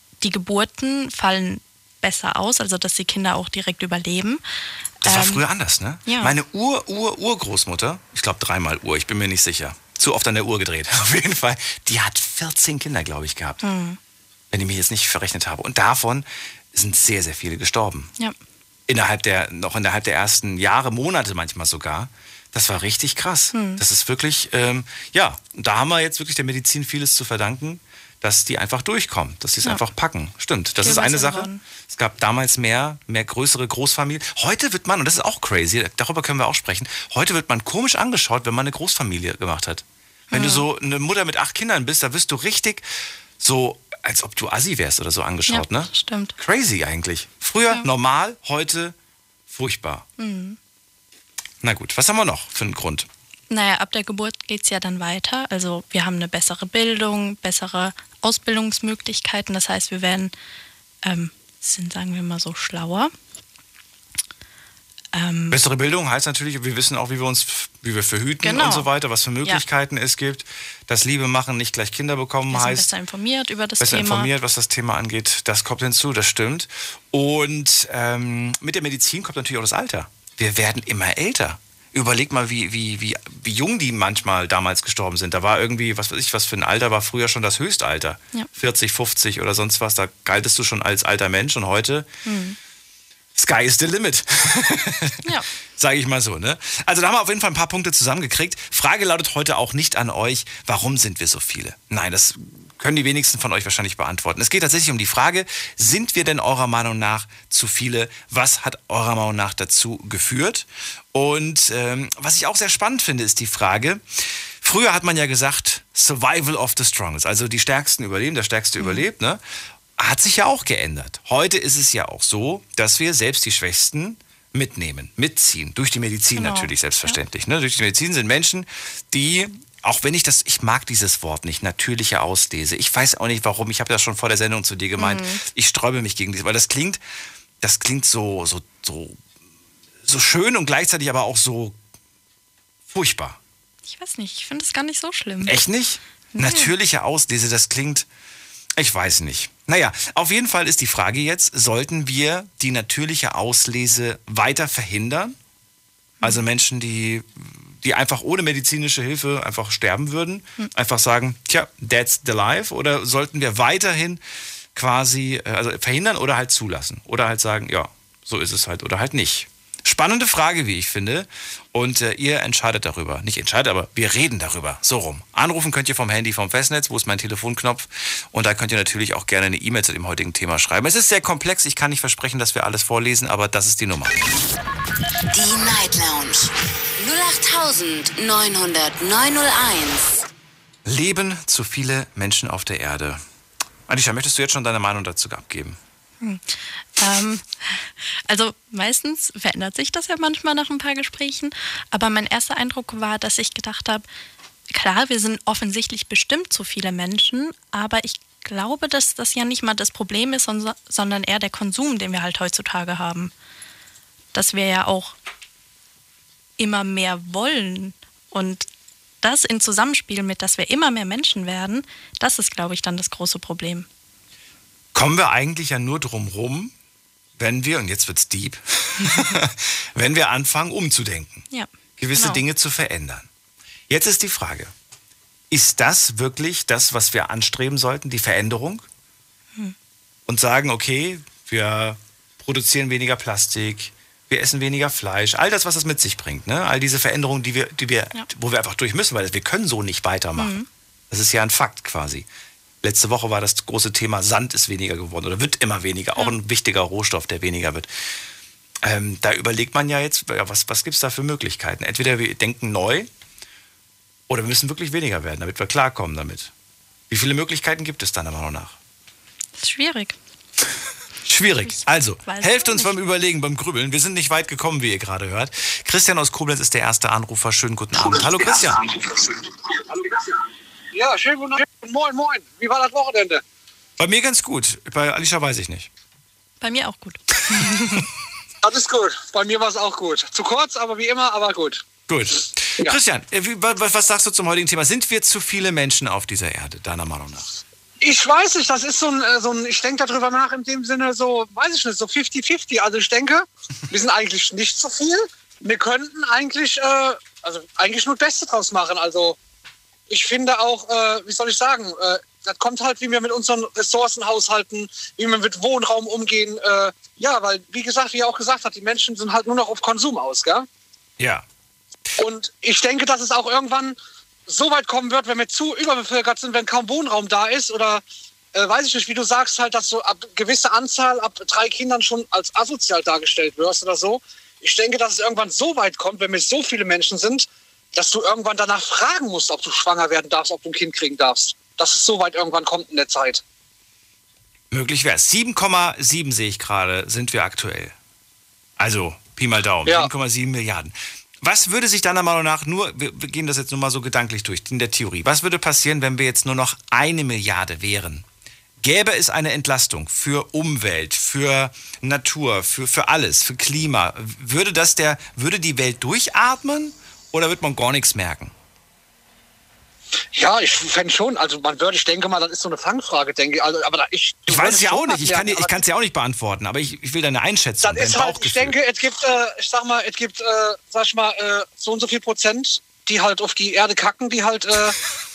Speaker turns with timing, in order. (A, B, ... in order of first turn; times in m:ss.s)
0:00.2-0:04.4 A
0:05.0-0:05.4 A
0:05.0-0:13.6 B
0:06.0-0:06.3 A
0:13.6-0:14.0 A
0:14.5-0:18.1 B
0:18.9-0:42.8 B
0:23.5-0:23.8 A
0:30.8-0:31.6 A
0:40.3-0:40.6 A
0:43.4-0:48.9 B
0:45.5-0:46.3 A
0:49.5-0:50.0 B
0:50.2-0:50.6 A
0:51.6-0:53.1 B
0:53.5-1:00.3 A
1:01.0-1:03.1 A
1:05.1-1:05.6 A
1:05.5-1:12.9 B
1:08.4-1:08.9 A
1:12.5-1:14.3 A
1:13.8-1:32.1 B
1:32.2-1:32.6 A
1:33.4-1:59.4 B
1:58.8-1:59.0 A
2:00.0-2:17.0 B
2:06.4-2:07.2 A
2:15.0-2:15.4 A
2:17.6-2:19.2 B
2:20.0-2:21.8 B
2:22.9-2:23.4 B
2:23.9-2:25.6 A
2:25.4-2:28.1 B
2:26.3-2:26.7 A
2:28.8-2:35.4 B
2:36.2-2:44.2 B
2:44.7-3:04.3 B
3:05.3-3:10.2 C
3:10.8-3:13.2 B
3:13.9-3:15.8 B
3:16.2-3:24.0 A
3:24.7-3:33.3 A
3:34.3-3:35.1 A
3:36.6-3:38.6 A
3:39.2-3:43.9 A
3:44.9-3:46.7 B
3:47.4-3:51.4 B
3:51.5-3:52.4 A
3:52.0-3:53.3 B
3:53.9-3:54.7 B
3:55.5-3:58.8 B
4:00.3-4:10.5 B
4:10.4-4:10.7 A
4:11.1-4:12.3 B
4:12.8-4:17.9 B
4:18.8-4:23.1 B
4:24.3-4:26.5 B
4:27.1-4:28.8 B
4:29.6-4:30.2 A
4:31.2-4:38.9 B
4:31.7-4:32.9 A
4:40.9-4:43.4 D
4:44.0-4:45.9 B
4:46.6-4:48.1 A
4:48.6-4:51.8 D
4:52.1-4:57.6 B
4:58.0-5:09.4 D
5:10.1-5:20.6 D
5:21.2-5:21.4 B
5:22.2-5:24.0 D
5:24.5-5:28.0 D
5:28.5-5:43.4 D
5:44.7-5:48.0 B
5:48.8-5:58.2 B
5:58.8-6:08.5 B
6:10.3-6:15.8 D
6:14.5-6:18.8 B
6:17.8-6:25.0 D